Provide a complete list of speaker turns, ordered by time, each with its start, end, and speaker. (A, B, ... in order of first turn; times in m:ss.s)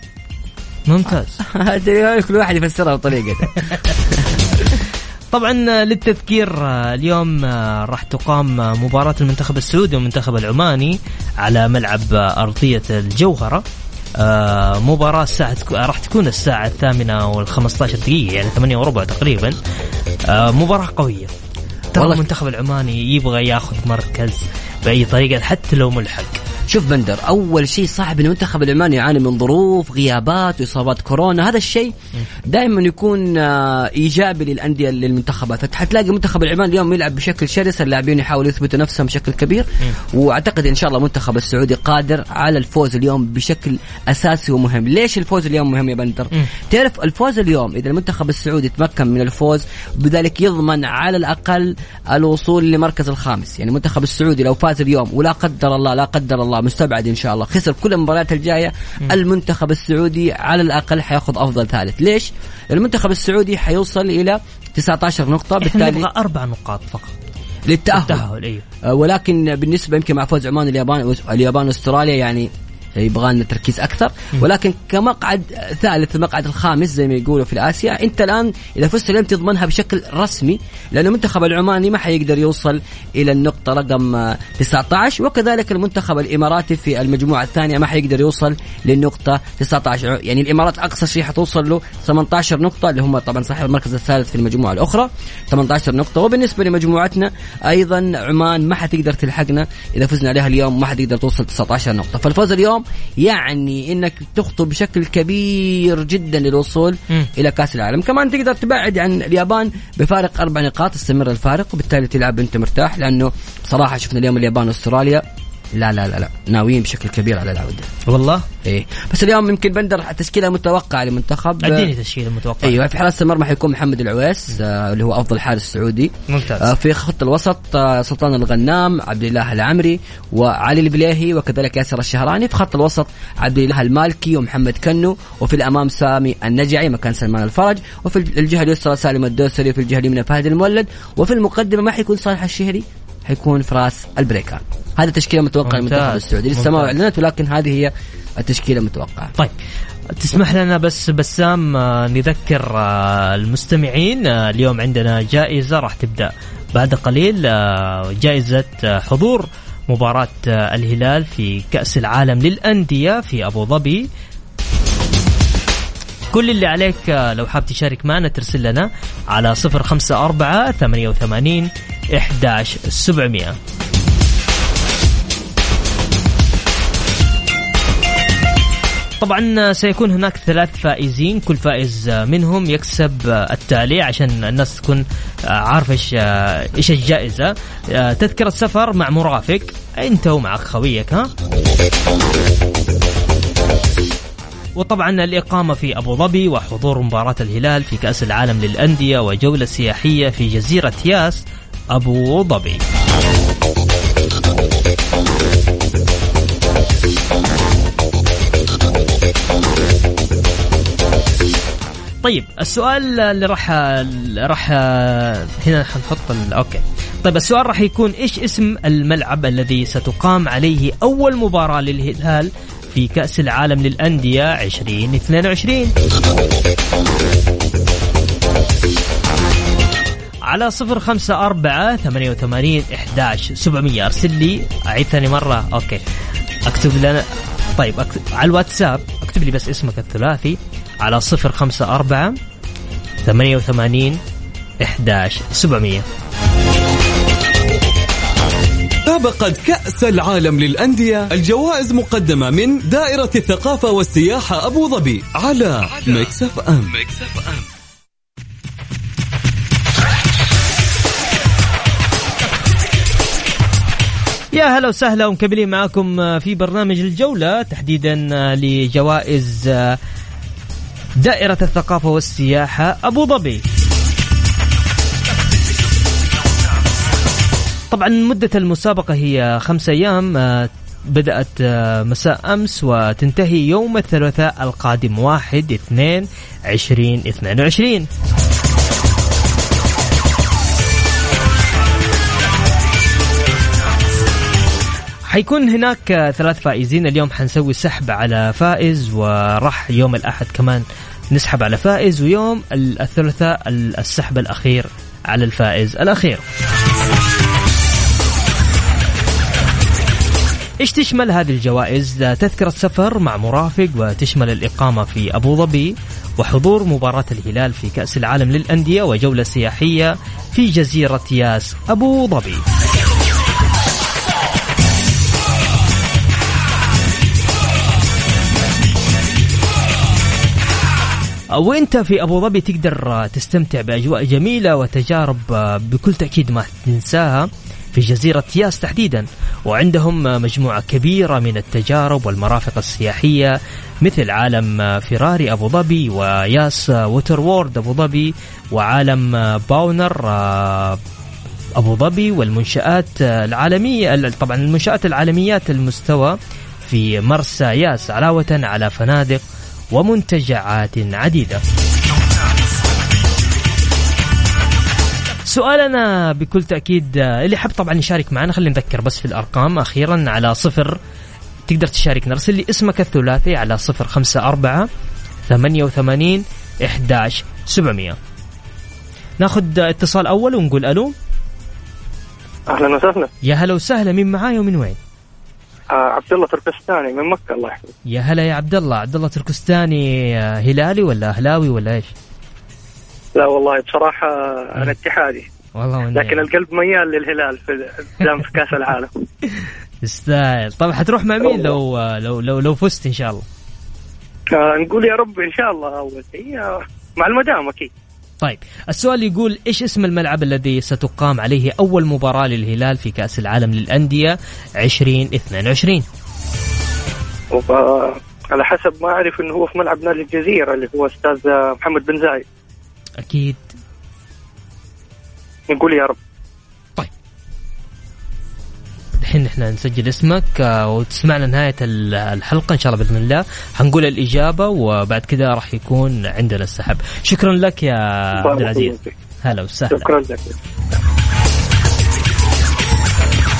0:00.9-0:01.4 A
0:01.4-0:04.3 B
0:05.3-0:13.6 A
0:14.2-0:19.6 A
0:20.3-0:21.3 A
0:21.9-0:26.4 A
0:21.9-0:22.2 B
0:26.7-0:31.9 B
0:32.5-1:06.1 B
1:05.6-1:07.1 A
1:07.7-1:08.3 B
1:07.9-1:08.6 A
1:08.8-1:57.9 B
1:58.1-1:58.4 A
1:58.6-2:01.9 B
2:01.6-2:02.8 A
2:02.6-2:29.3 B
2:06.3-2:06.7 A
2:25.6-2:26.9 A
2:30.2-2:44.1 A
2:46.3-2:53.6 A
2:59.2-3:11.3 A
3:14.8-3:22.8 A
3:32.2-3:45.9 A
3:50.5-3:56.0 A
3:56.7-3:57.2 A
3:57.8-4:02.4 A
4:03.2-4:04.2 A
4:04.8-4:06.0 A
4:09.1-4:17.6 C
4:24.5-4:30.0 A
4:31.2-4:33.6 A
4:37.9-4:48.1 A
4:55.3-5:06.4 A
5:10.8-5:22.6 A
5:31.5-5:51.0 A
5:51.8-5:59.4 A
5:59.9-6:01.6 A
6:05.5-6:11.0 A
6:11.7-6:14.9 A
6:15.5-6:18.2 A
6:19.4-6:21.1 A
6:22.7-6:23.3 D
6:23.4-6:25.0 A
6:25.9-6:27.9 D
6:28.1-6:32.1 A
6:33.4-6:35.5 D
6:35.8-6:36.5 A
6:36.1-6:39.1 D
6:40.0-6:43.4 A
6:44.5-6:47.9 D
6:48.4-6:56.0 A
6:57.5-7:02.4 D
7:03.2-7:03.6 A
7:05.7-7:06.2 D
7:09.2-7:20.2 A
7:18.4-7:19.1 D
7:19.9-7:20.6 D